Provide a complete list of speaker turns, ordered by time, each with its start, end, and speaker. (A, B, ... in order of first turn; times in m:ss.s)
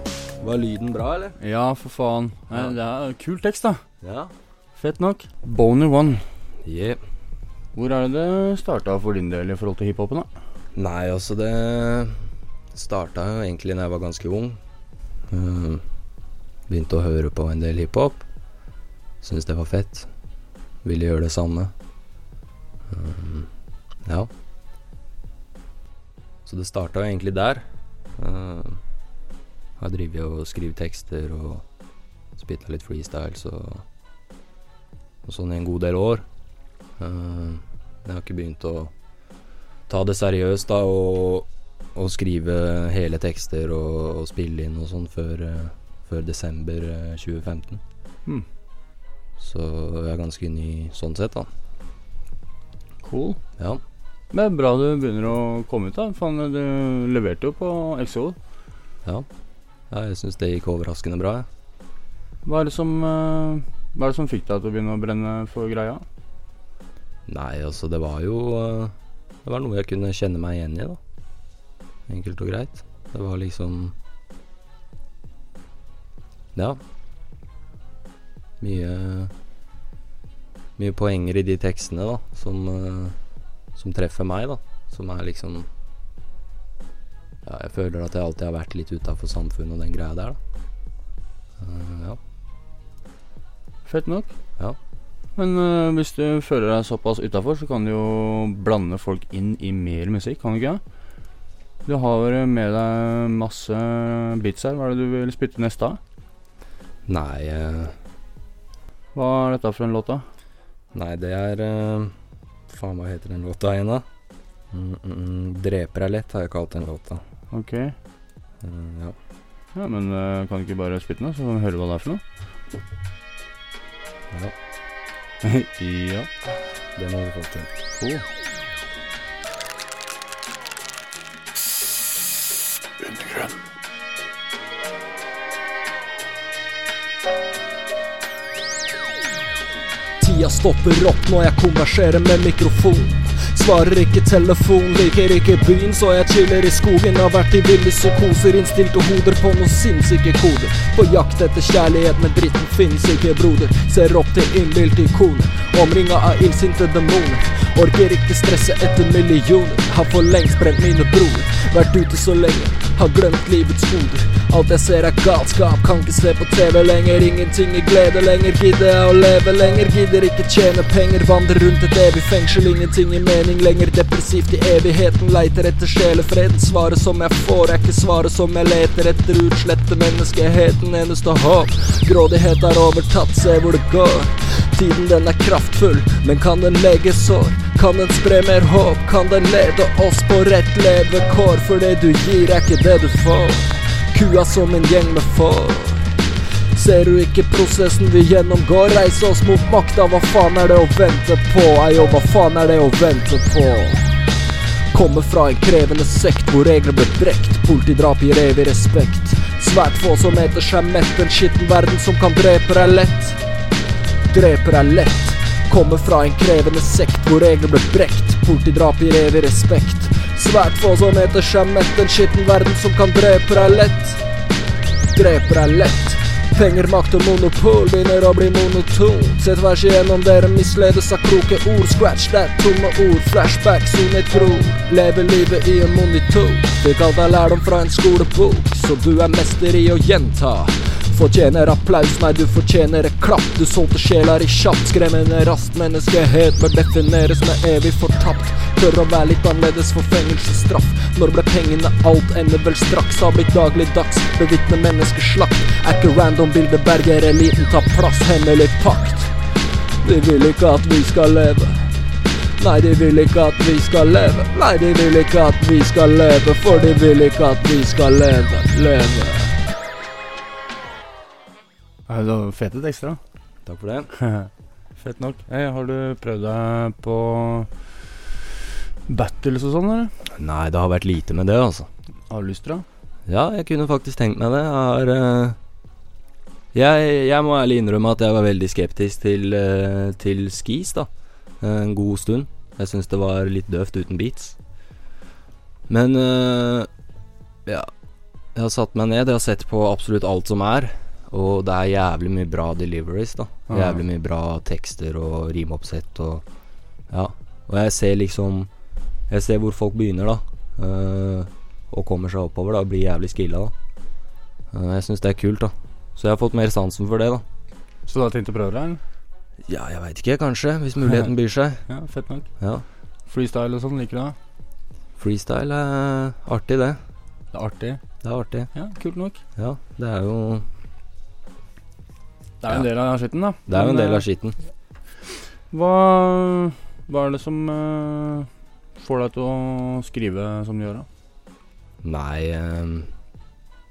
0:00.4-0:01.4 A
0:01.4-0:03.8 B
0:04.0-0:04.3 A
0:04.7-0:06.2 B
0:06.6-0:07.0 A
0:07.7-0:10.3 B
0:10.7-0:12.2 A
0:12.7-0:14.6 A
0:15.3-0:15.8 A
0:16.7-0:18.2 A
0:19.2-0:20.1 A
0:20.8-0:21.7 A
0:22.9-0:23.5 A
0:26.4-0:27.6 A
0:28.2-0:28.8 A
0:29.8-0:31.6 A
0:32.4-0:33.8 A
0:35.2-0:36.2 A
0:37.0-0:38.9 A
0:39.9-0:47.8 A
0:49.4-0:51.5 A
0:53.0-0:53.4 B
0:54.3-0:58.4 B
0:59.9-1:01.4 A
1:02.4-1:06.0 B
1:07.3-1:08.9 A
1:09.4-1:11.0 A
1:12.1-1:13.9 A
1:18.6-1:19.3 A
1:20.8-1:23.2 A
1:23.8-1:25.7 A
1:27.4-1:30.4 A
1:31.6-1:32.2 A
1:33.8-1:34.3 B
1:35.4-1:40.8 B
1:41.8-1:46.0 B
1:47.1-1:48.0 A
1:49.1-1:50.2 B
1:50.9-1:52.1 A
1:52.7-1:54.0 A
1:54.7-1:57.2 A
1:57.5-1:57.9 B
1:58.6-1:59.1 A
1:59.7-2:02.2 B
2:05.4-2:06.3 B
2:07.0-2:07.7 A
2:08.0-2:08.2 B
2:20.2-3:16.2 C
3:16.7-3:24.1 C
3:24.9-3:33.4 C
3:34.3-3:44.2 C
3:45.1-4:19.3 C
4:20.0-4:21.9 C
4:22.6-4:29.6 C
4:32.1-4:33.2 B
4:33.6-4:34.1 A
4:34.3-4:37.9 B
4:39.1-4:40.1 B
4:40.4-4:41.9 A
4:42.3-4:42.8 B
4:43.3-4:45.6 A
4:46.7-4:51.1 A
4:51.6-4:54.6 A
4:55.9-4:56.9 A
4:58.5-5:06.4 A
5:03.7-5:04.0 B
5:07.1-5:08.7 A
5:09.3-5:13.7 A
5:14.7-5:17.4 A
5:18.0-5:19.0 B
5:19.7-5:21.8 A
5:21.9-5:22.5 B
5:22.6-5:22.8 A
5:23.2-5:24.4 B
5:25.2-5:27.0 A
5:27.5-5:28.0 B
5:28.2-5:28.7 A
5:28.7-5:29.4 B
5:29.6-5:30.6 A
5:32.6-5:34.2 B
5:33.7-5:34.6 A
5:35.7-5:41.1 B
5:42.0-5:43.1 A